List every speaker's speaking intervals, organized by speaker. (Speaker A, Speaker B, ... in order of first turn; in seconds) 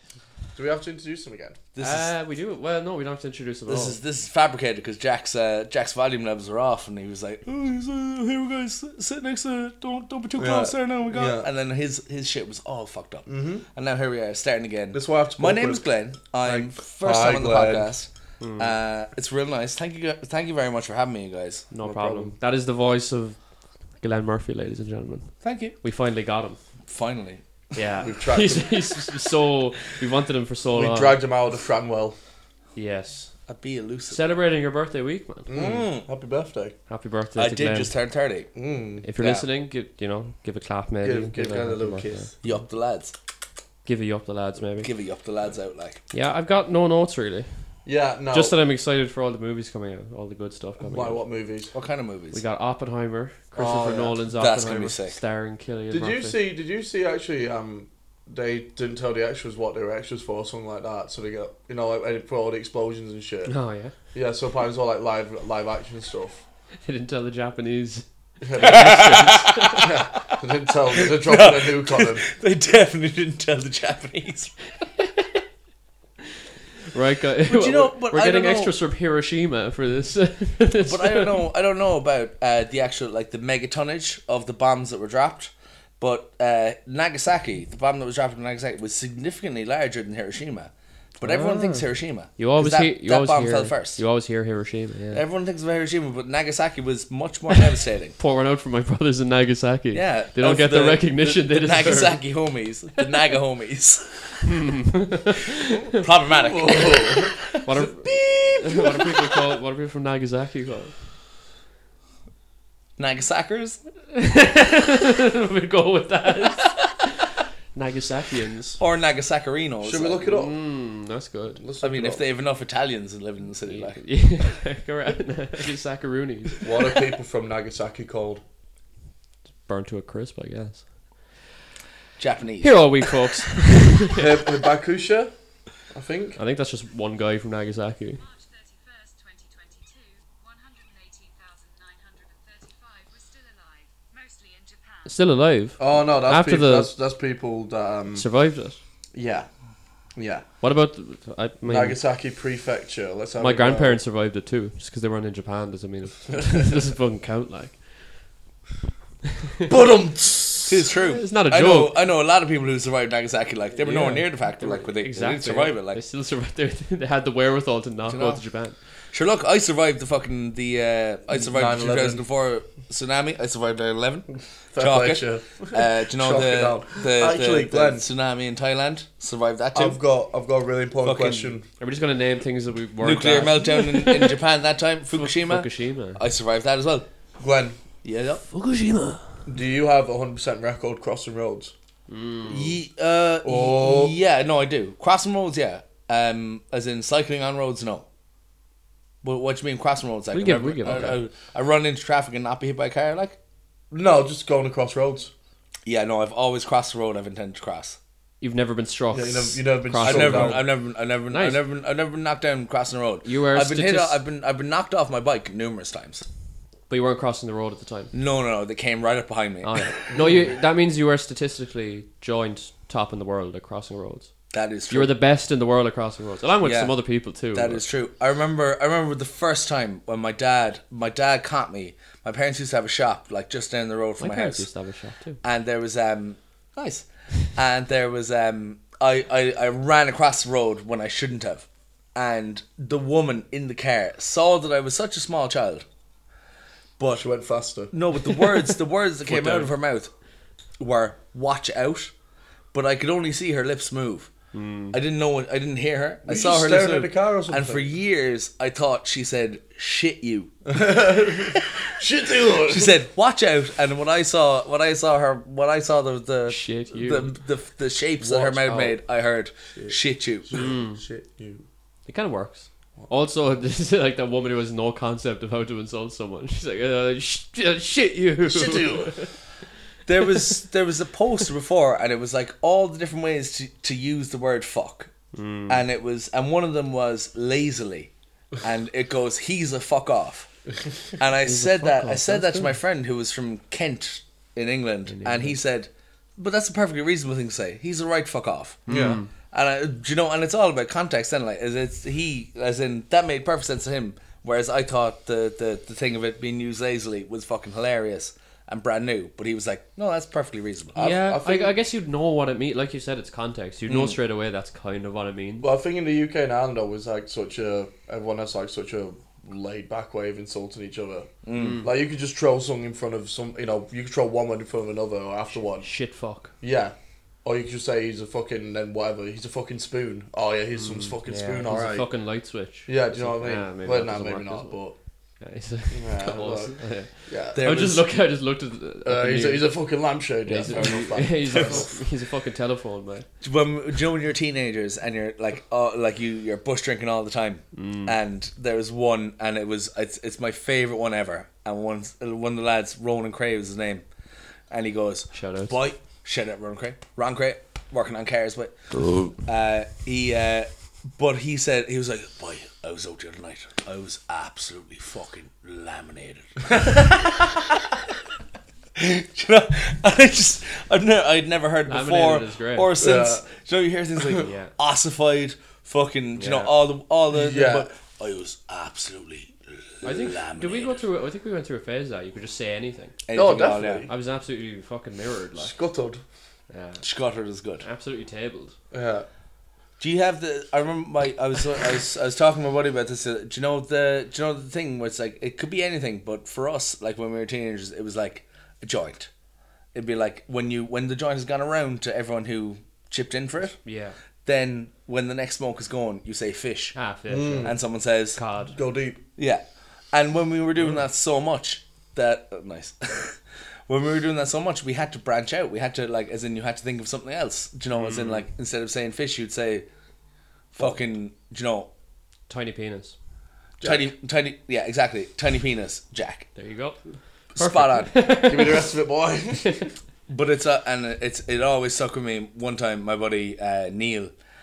Speaker A: 0.5-1.6, 10.4-11.5, 13.3-13.7, 14.9-15.8, 16.4-17.9, 21.8-22.3, 28.0-28.8, 30.7-32.1, 35.5-36.8, 38.5-39.0, 41.0-42.3, 47.9-48.6, 50.8-51.7, 53.6-54.1, 55.9-66.4, 68.4-72.3, 106.3-107.5, 119.8-120.5, 121.6-122.2, 126.6-128.4, 134.1-135.3, 135.8-136.4, 145.8-148.2, 149.1-149.5, 150.1-150.4, 151.7-154.0, 159.7-160.9, 163.8-164.3, 171.4-172.2, 174.7-178.0, 179.7-181.7, 187.4-187.8, 189.5-191.7, 193.4-194.1, 203.9-205.3, 209.1-210.6, 220.1-220.5, 247.0-247.9, 256.2-257.9, 260.7-263.0, 268.2-269.0, 270.5-271.6, 278.4-279.2, 298.9-299.2, 310.9-311.7, 315.6-321.3, 321.8-325.9, 326.6-332.1, 332.9-335.0, 335.9-337.6, 339.1-342.0, 373.0-373.5, 374.2-374.4, 377.3-377.9, 383.3-384.1, 385.6-386.2, 388.9-389.2, 407.3-407.8, 408.7-409.2, 423.8-424.1, 428.3-429.9
Speaker B: 1.8-2.1, 3.7-21.7, 25.4-25.8, 26.9-27.8, 33.5-34.3, 35.5-36.0, 37.4-38.5, 39.2-39.5, 42.4-43.1, 44.8-46.0, 51.7-52.4, 54.3-55.2, 68.6-70.3, 71.0-74.5, 77.5-78.7, 80.8-94.0, 95.1-98.2, 99.9-104.6, 105.9-109.3, 113.0-113.8, 118.8-120.3, 121.8-124.0, 132.2-133.2, 160.7-166.0, 168.0-168.4, 169.1-180.0, 181.0-181.5, 183.0-187.1, 188.0-188.4, 192.4-198.1, 199.2-203.4, 205.8-208.0, 210.0-216.2, 218.1-219.9, 224.5-225.1, 226.6-234.7, 235.4-245.8, 247.9-250.1, 250.8-252.1, 252.7-254.3, 254.9-260.6, 261.6-261.9, 262.6-270.6, 280.1-285.1, 285.7-288.1, 288.6-290.5, 291.2-299.0, 299.5-311.0, 313.9-314.2, 321.4-321.8, 337.5-338.1, 340.6-342.0, 343.4-354.1, 354.7-367.9, 369.0-381.0, 383.2-384.1, 387.0-387.9, 390.0-399.3, 399.9-403.8, 404.4-407.0, 407.6-408.4, 409.4-413.4, 413.9-419.9, 420.7-421.9, 423.8-426.5, 427.6-428.3, 430.3-434.3
Speaker C: 1.8-4.0, 18.4-18.7, 21.7-26.6, 27.8-31.2, 32.7-33.3, 34.1-35.5, 36.9-37.9, 39.0-42.3, 43.8-44.9, 46.1-47.6, 48.3-51.2, 52.3-56.4, 63.5-64.0, 66.8-69.9, 75.0-75.4, 76.9-81.4, 91.2-95.2, 98.2-102.2, 104.7-105.7, 107.6-111.0, 114.2-118.8, 120.3-121.6, 123.7-126.7, 129.7-131.2, 132.6-134.2, 136.4-138.2, 145.1-146.9, 148.1-148.8, 150.6-152.0, 153.4-158.3, 161.1-161.9, 164.6-168.8, 181.8-184.4, 185.1-186.2, 188.5-189.4, 192.1-192.8, 200.3-201.2, 208.4-210.7, 211.3-211.6, 213.2-214.2, 216.9-218.1, 219.6-224.3, 224.9-227.8, 234.2-235.4, 249.3-249.7, 254.5-255.0, 266.5-267.3, 270.6-271.0, 272.1-279.4, 280.3-280.5, 285.3-285.8, 291.4-292.8, 295.1-295.6, 298.9-299.3, 311.0-315.7, 321.6-321.9, 325.5-326.6, 330.8-334.8, 335.4-339.7, 340.5-343.3, 347.7-348.2, 355.3-355.8, 371.9-373.0, 374.4-374.7, 376.4-376.7, 380.0-383.2, 384.1-385.7, 386.7-387.0, 387.8-388.8, 403.9-404.2, 406.9-407.8, 408.4-408.8, 417.9-418.5, 422.5-423.2, 426.6-428.9
Speaker D: 138.2-145.2